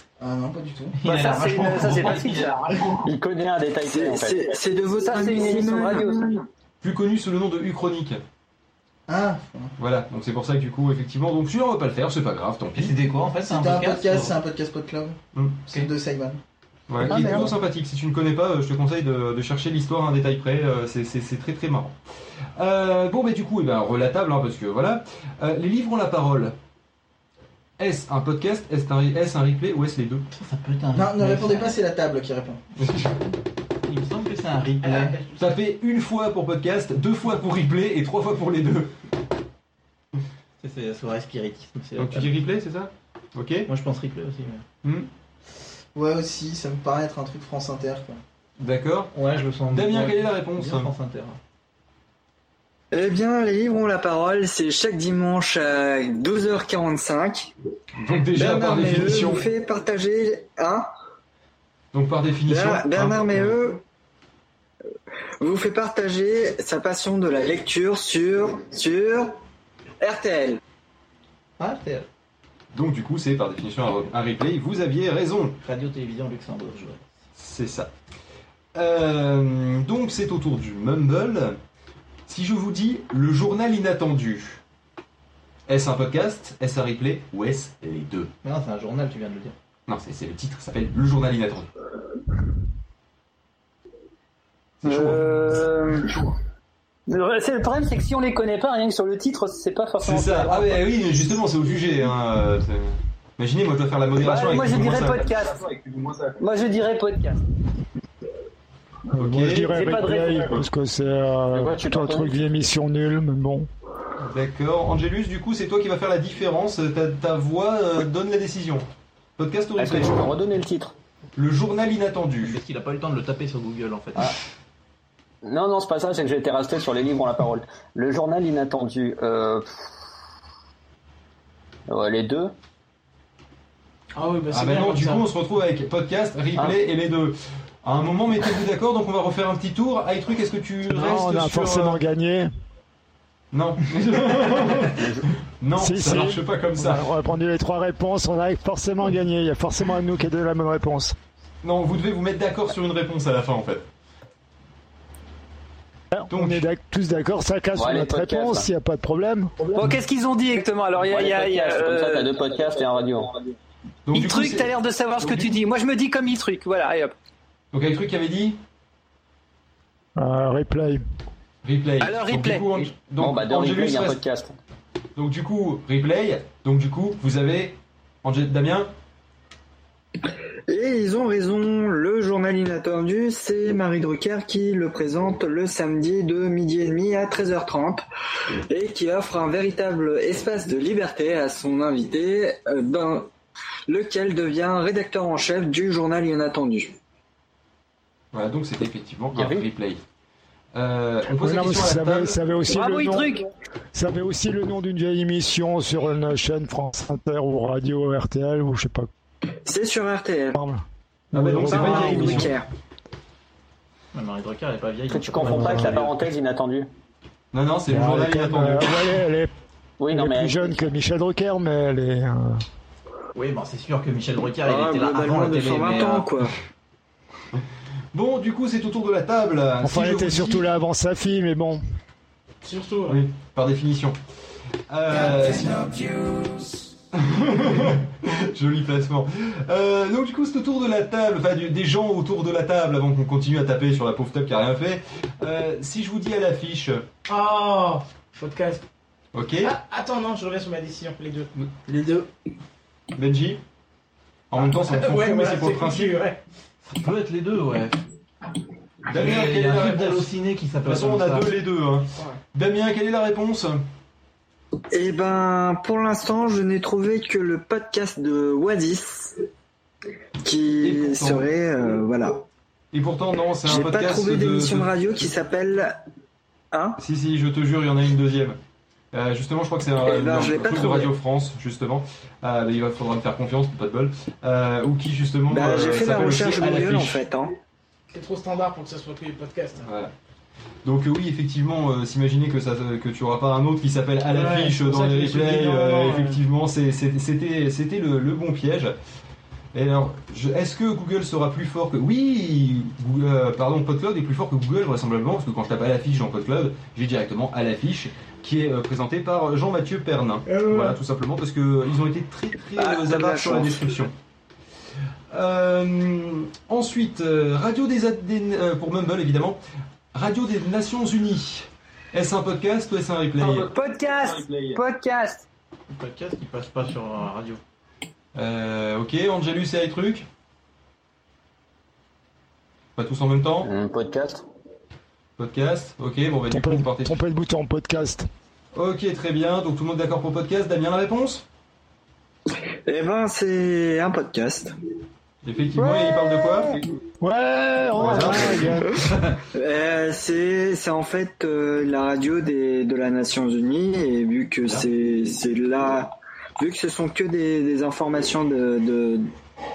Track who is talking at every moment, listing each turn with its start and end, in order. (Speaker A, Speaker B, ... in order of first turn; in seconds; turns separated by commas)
Speaker A: 0.2-1.0, Speaker B: 0.9-2.9, Speaker C: 1.0-2.9, Speaker D: 3.0-4.6, Speaker E: 3.8-6.4, Speaker C: 5.0-6.2, Speaker F: 6.8-8.2, Speaker A: 9.1-9.7, Speaker F: 9.8-12.9, Speaker B: 12.8-14.3, Speaker A: 13.4-16.4, Speaker F: 15.3-15.6, Speaker F: 16.9-21.9, Speaker A: 17.0-17.5, Speaker B: 17.1-17.4, Speaker F: 22.6-26.5, Speaker F: 27.8-30.2, Speaker B: 30.3-31.8, Speaker A: 30.9-32.6, Speaker F: 32.8-33.1, Speaker B: 33.8-35.2, Speaker G: 34.8-35.5, Speaker F: 35.4-38.9, Speaker B: 40.6-42.3, Speaker F: 42.0-43.7, Speaker B: 43.7-44.6, Speaker F: 44.8-45.1, Speaker A: 45.9-48.2, Speaker F: 48.6-49.1, Speaker B: 49.1-51.4, Speaker F: 49.7-50.9, Speaker E: 52.9-57.5, Speaker F: 58.0-59.5, Speaker E: 58.3-60.9, Speaker F: 61.9-63.6, Speaker E: 62.5-63.8, Speaker E: 65.4-69.3, Speaker E: 70.0-70.6, Speaker B: 71.6-72.0, Speaker F: 72.7-75.5, Speaker B: 75.6-77.0, Speaker F: 77.3-77.9, Speaker F: 78.7-81.6, Speaker F: 82.3-84.6, Speaker F: 85.7-88.3, Speaker B: 88.4-89.5, Speaker F: 89.9-91.7, Speaker F: 94.8-95.2, Speaker C: 94.8-96.3, Speaker C: 97.1-100.8, Speaker F: 100.0-105.2, Speaker C: 104.2-105.7, Speaker C: 106.4-107.4, Speaker H: 109.1-113.7, Speaker F: 109.2-109.7, Speaker C: 109.7-110.6, Speaker D: 111.5-112.5, Speaker F: 114.2-118.8, Speaker F: 119.4-120.3, Speaker D: 119.8-120.9, Speaker F: 121.3-122.6, Speaker B: 122.4-124.3, Speaker D: 125.4-129.9, Speaker D: 131.9-132.5, Speaker G: 134.2-135.3, Speaker F: 134.5-142.0, Speaker H: 140.9-142.5, Speaker F: 143.5-145.1, Speaker D: 144.9-145.3, Speaker F: 145.6-147.1, Speaker H: 145.8-151.2, Speaker F: 151.6-153.8, Speaker H: 156.1-159.5, Speaker F: 156.3-156.7, Speaker D: 157.7-158.7, Speaker C: 159.7-162.3, Speaker D: 161.0-163.3, Speaker F: 164.1-165.5, Speaker C: 164.1-167.1, Speaker F: 167.7-168.6, Speaker H: 170.2-171.0, Speaker F: 171.6-174.2, Speaker C: 172.0-172.9, Speaker D: 173.2-174.6, Speaker F: 175.2-178.9, Speaker E: 180.7-188.0, Speaker E: 188.7-193.3, Speaker E: 193.9-196.9, Speaker F: 198.3-200.0, Speaker D: 199.3-199.7, Speaker F: 200.7-202.4, Speaker H: 201.3-203.4, Speaker C: 202.7-203.5, Speaker H: 203.9-209.1, Speaker E: 209.6-210.6, Speaker H: 210.5-212.5, Speaker F: 211.3-212.5, Speaker E: 211.7-212.7, Speaker B: 214.1-216.1, Speaker D: 215.1-216.9, Speaker H: 215.3-216.1, Speaker F: 217.5-219.1, Speaker H: 217.9-219.5, Speaker D: 220.0-220.8, Speaker H: 220.1-222.6, Speaker B: 223.3-226.3, Speaker E: 224.6-226.5, Speaker F: 228.1-230.6, Speaker H: 229.8-231.8, Speaker G: 232.6-233.2, Speaker F: 233.1-234.2, Speaker F: 234.9-236.0, Speaker F: 237.1-247.0, Speaker G: 247.3-248.8, Speaker F: 249.3-249.7, Speaker G: 249.6-251.5, Speaker A: 251.9-252.2, Speaker F: 253.1-253.6, Speaker F: 254.5-256.2, Speaker G: 254.6-256.4, Speaker B: 256.9-258.0, Speaker F: 259.1-260.3, Speaker B: 259.1-261.5, Speaker F: 260.8-263.8, Speaker E: 264.9-269.4, Speaker E: 270.4-272.4, Speaker F: 270.8-271.5, Speaker F: 272.9-275.0, Speaker E: 273.6-275.9, Speaker E: 276.7-277.0, Speaker F: 277.0-278.6, Speaker F: 279.1-287.2, Speaker E: 280.0-281.1, Speaker E: 285.5-287.6, Speaker G: 288.1-289.9, Speaker F: 289.8-290.1, Speaker F: 290.8-298.9, Speaker G: 294.3-296.4, Speaker F: 299.7-314.1, Speaker G: 310.4-311.0, Speaker E: 312.8-314.1, Speaker F: 315.3-319.6, Speaker F: 320.1-323.7, Speaker C: 323.4-325.4, Speaker B: 325.9-327.6, Speaker F: 328.3-330.2, Speaker F: 332.9-333.7, Speaker D: 333.6-334.4, Speaker F: 335.4-337.2, Speaker H: 336.5-338.3, Speaker F: 338.7-341.4, Speaker E: 342.9-344.7, Speaker F: 345.4-346.8, Speaker E: 345.8-346.8, Speaker H: 347.2-349.0, Speaker F: 347.9-348.8, Speaker B: 349.0-349.3, Speaker E: 349.5-359.3